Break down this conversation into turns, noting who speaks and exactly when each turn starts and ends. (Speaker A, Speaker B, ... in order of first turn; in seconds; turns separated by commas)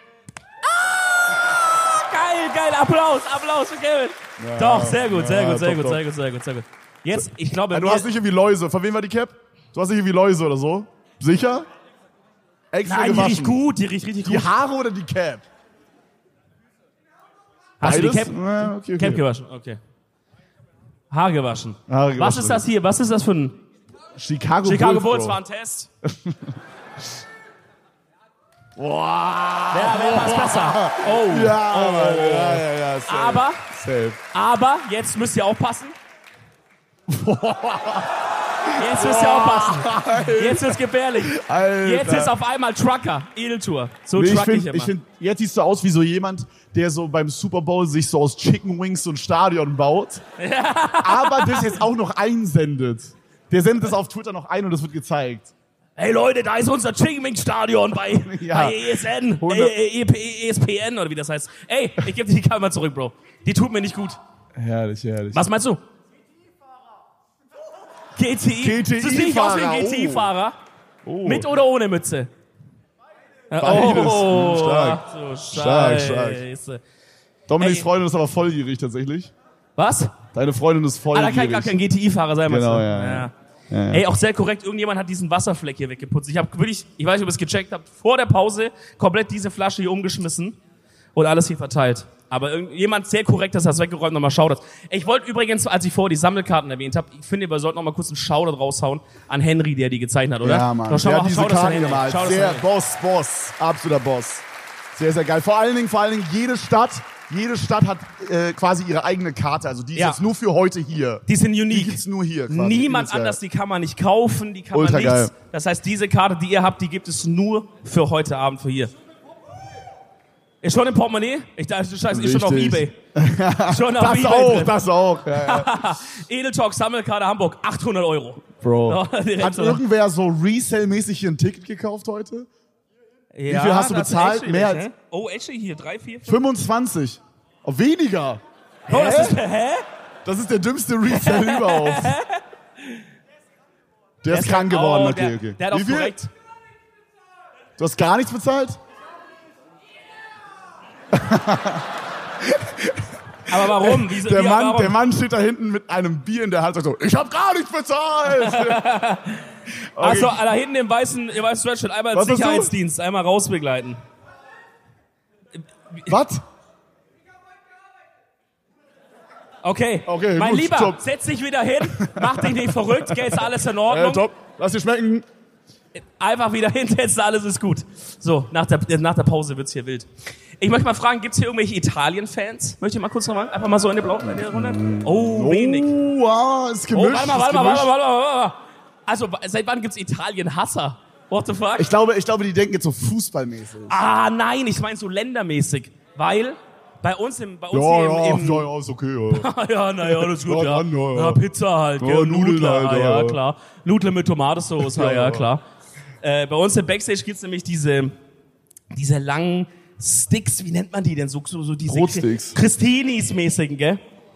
Speaker A: 0.7-8.1, Speaker B: 4.4-6.0, Speaker B: 7.1-11.7, Speaker B: 12.7-13.6, Speaker A: 12.8-14.5, Speaker B: 14.2-15.4, Speaker A: 17.8-19.8, Speaker B: 17.8-19.2, Speaker A: 21.1-23.6, Speaker B: 21.9-22.6, Speaker B: 24.2-25.4, Speaker A: 24.6-25.9, Speaker B: 26.0-26.6, Speaker B: 28.8-34.2, Speaker A: 29.7-33.6, Speaker A: 34.3-35.9, Speaker B: 37.1-42.3, Speaker A: 38.7-44.9, Speaker B: 44.1-50.2, Speaker A: 50.4-51.8, Speaker B: 51.0-55.5, Speaker A: 56.0-64.2, Speaker B: 58.1-59.7, Speaker B: 64.5-65.5, Speaker A: 65.3-65.8, Speaker A: 68.1-70.5, Speaker B: 68.6-70.3, Speaker B: 71.0-71.5, Speaker A: 71.2-72.3, Speaker A: 73.5-76.8, Speaker B: 73.6-76.4, Speaker B: 77.5-79.3, Speaker A: 77.6-77.9, Speaker A: 79.8-80.2, Speaker B: 80.3-81.8, Speaker A: 81.1-83.3, Speaker B: 82.5-84.0, Speaker A: 83.9-90.6, Speaker A: 91.1-102.7, Speaker B: 100.4-113.4, Speaker A: 109.9-110.2, Speaker A: 111.3-118.9, Speaker B: 114.7-115.3, Speaker A: 120.6-123.0, Speaker B: 122.1-125.9, Speaker A: 123.7-129.8, Speaker B: 128.6-132.5, Speaker A: 133.3-136.3, Speaker B: 133.5-134.9, Speaker B: 136.2-139.4, Speaker A: 138.9-139.8, Speaker B: 140.2-142.2, Speaker A: 141.1-143.0, Speaker B: 144.2-146.1, Speaker A: 144.3-146.3, Speaker B: 147.8-148.8, Speaker B: 151.1-158.8, Speaker A: 153.5-154.9, Speaker A: 158.2-164.0, Speaker B: 159.9-160.4, Speaker B: 162.1-162.7, Speaker B: 166.1-166.4, Speaker A: 169.6-174.2, Speaker B: 170.1-171.0, Speaker B: 171.9-175.2, Speaker A: 175.9-180.1, Speaker A: 180.6-185.9, Speaker B: 184.3-187.9, Speaker A: 186.9-191.9, Speaker B: 191.8-194.0, Speaker A: 193.9-198.7, Speaker B: 197.7-199.5, Speaker A: 199.3-205.6, Speaker B: 200.0-201.4, Speaker B: 202.0-203.4, Speaker B: 204.8-205.5, Speaker A: 206.2-208.1, Speaker A: 208.9-214.0, Speaker B: 211.8-212.6